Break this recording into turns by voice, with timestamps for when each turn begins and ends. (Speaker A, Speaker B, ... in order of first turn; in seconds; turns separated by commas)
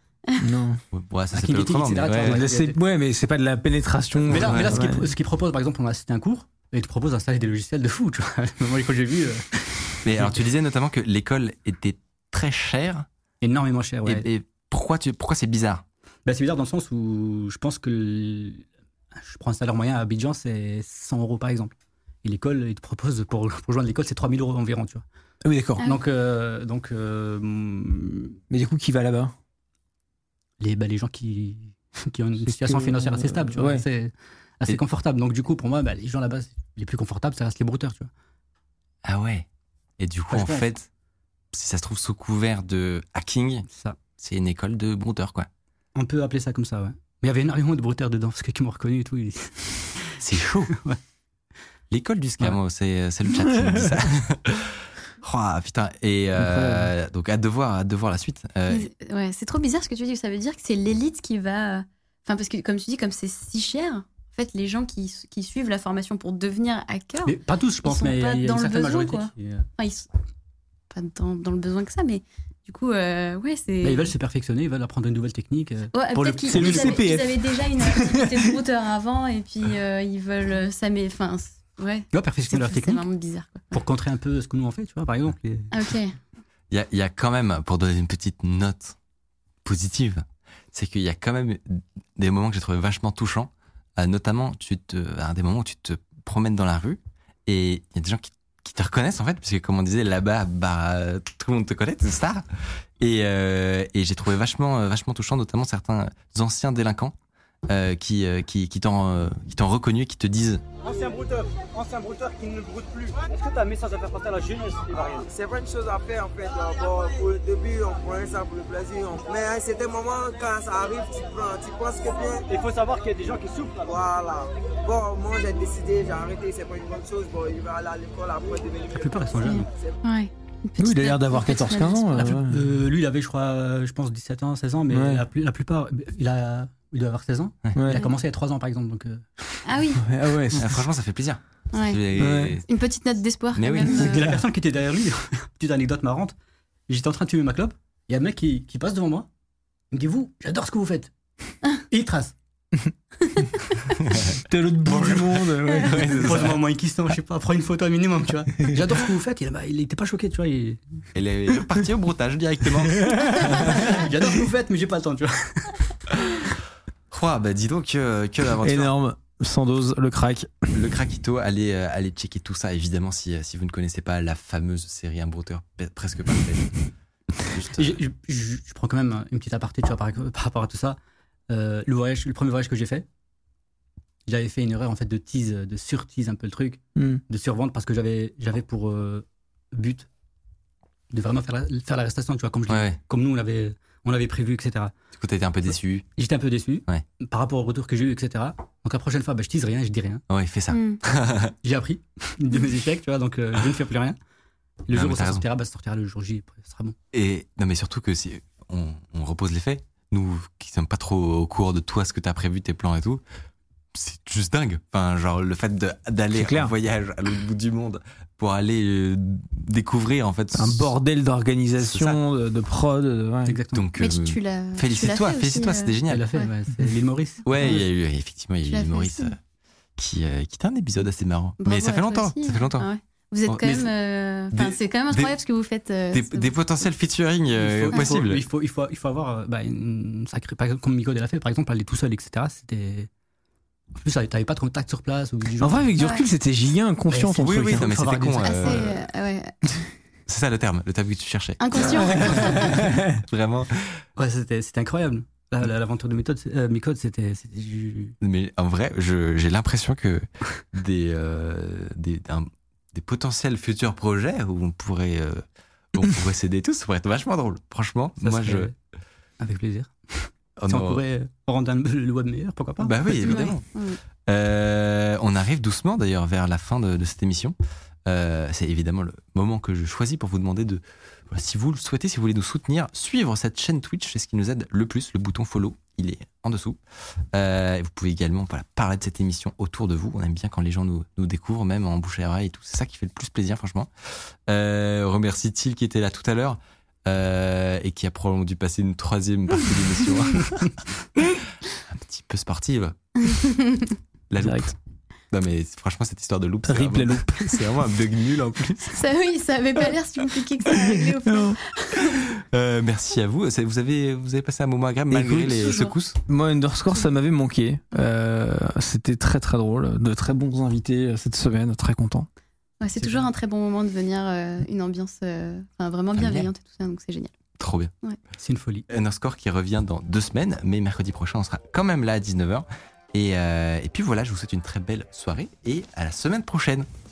Speaker A: 0.4-0.8, Speaker B: 0.9-2.4, Speaker C: 1.3-2.8, Speaker A: 2.1-5.1, Speaker C: 4.3-10.3, Speaker B: 4.3-4.8, Speaker B: 10.0-13.1, Speaker C: 13.4-14.3, Speaker B: 14.1-15.8, Speaker C: 16.3-21.7, Speaker C: 22.2-25.0, Speaker A: 25.4-25.8, Speaker D: 25.8-26.0, Speaker C: 25.8-28.4, Speaker A: 28.5-29.4, Speaker C: 30.6-38.1, Speaker A: 32.5-33.9, Speaker B: 39.0-39.5, Speaker B: 40.0-40.9, Speaker C: 40.3-40.7, Speaker B: 41.5-43.6, Speaker C: 43.7-44.0, Speaker B: 44.2-45.5, Speaker C: 46.0-51.0, Speaker B: 50.2-50.7, Speaker B: 51.9-58.9, Speaker A: 53.4-53.9, Speaker A: 56.4-56.9, Speaker D: 58.7-70.1, Speaker C: 67.3-69.7, Speaker D: 70.9-74.1, Speaker C: 73.8-77.1, Speaker D: 75.9-83.8, Speaker A: 76.5-77.4, Speaker C: 82.1-83.0, Speaker C: 83.7-85.8, Speaker D: 85.7-86.1, Speaker B: 86.7-89.0, Speaker B: 89.6-102.4, Speaker B: 103.0-107.1, Speaker B: 107.7-110.6, Speaker E: 110.8-115.3, Speaker F: 114.9-122.5, Speaker E: 122.5-124.0, Speaker F: 123.8-129.9, Speaker C: 128.9-129.7, Speaker D: 129.4-132.4, Speaker A: 130.8-132.6, Speaker C: 132.2-139.7, Speaker A: 134.9-135.2, Speaker A: 137.8-138.0, Speaker D: 139.6-140.1, Speaker A: 140.0-140.8, Speaker B: 140.6-142.7, Speaker D: 141.7-142.0, Speaker A: 142.2-142.6, Speaker D: 142.7-144.3, Speaker B: 143.6-144.2, Speaker C: 143.9-146.3, Speaker A: 143.9-144.4, Speaker C: 146.9-149.3, Speaker C: 149.9-151.1, Speaker C: 151.7-152.3, Speaker B: 154.0-154.3, Speaker A: 154.4-156.5, Speaker B: 154.9-156.6, Speaker C: 156.2-160.8, Speaker B: 161.1-164.1, Speaker A: 163.2-163.5, Speaker C: 163.6-165.9, Speaker B: 167.1-168.9, Speaker A: 168.6-170.7, Speaker B: 170.7-176.7, Speaker B: 177.4-178.0, Speaker C: 177.8-181.0, Speaker C: 181.5-183.1, Speaker C: 184.3-190.1, Speaker A: 186.9-187.2, Speaker C: 191.1-194.9, Speaker B: 192.7-193.0, Speaker B: 195.1-196.1, Speaker C: 196.2-200.2, Speaker B: 200.3-201.5, Speaker D: 200.7-201.0, Speaker C: 201.6-204.2, Speaker C: 204.9-206.9, Speaker B: 204.9-205.4, Speaker B: 207.1-213.2, Speaker B: 213.9-220.9, Speaker A: 216.4-216.7, Speaker A: 220.6-223.6, Speaker B: 221.9-222.2, Speaker C: 223.4-223.9, Speaker B: 223.7-226.3, Speaker D: 224.0-226.5, Speaker C: 226.1-227.9, Speaker B: 227.4-229.4, Speaker D: 228.7-229.3, Speaker B: 230.0-232.9, Speaker D: 231.6-236.5, Speaker B: 233.5-233.9, Speaker B: 234.5-235.3, Speaker B: 236.1-238.4, Speaker C: 237.6-243.1, Speaker C: 243.9-245.9, Speaker A: 245.6-247.9, Speaker D: 246.0-246.3, Speaker C: 247.1-248.8, Speaker B: 247.4-248.9, Speaker D: 248.4-249.5, Speaker B: 250.3-254.0, Speaker D: 251.6-252.8, Speaker A: 252.1-253.1, Speaker C: 254.2-258.1, Speaker B: 258.2-268.7, Speaker C: 268.2-268.7, Speaker C: 269.4-273.5, Speaker B: 270.6-271.0, Speaker B: 272.8-273.6, Speaker D: 273.2-274.0, Speaker B: 274.3-286.8, Speaker B: 287.3-293.9, Speaker B: 294.5-300.7, Speaker B: 301.9-302.9, Speaker D: 303.2-304.0, Speaker B: 304.3-304.7, Speaker A: 304.4-304.7, Speaker B: 305.3-309.0, Speaker A: 306.6-307.6, Speaker D: 308.9-312.3, Speaker A: 310.8-311.6, Speaker B: 312.1-316.1, Speaker A: 315.1-322.3, Speaker D: 315.6-315.9, Speaker D: 322.8-327.3, Speaker C: 323.0-323.3, Speaker B: 326.1-326.5, Speaker B: 327.6-327.9, Speaker C: 328.4-328.9, Speaker B: 328.9-336.9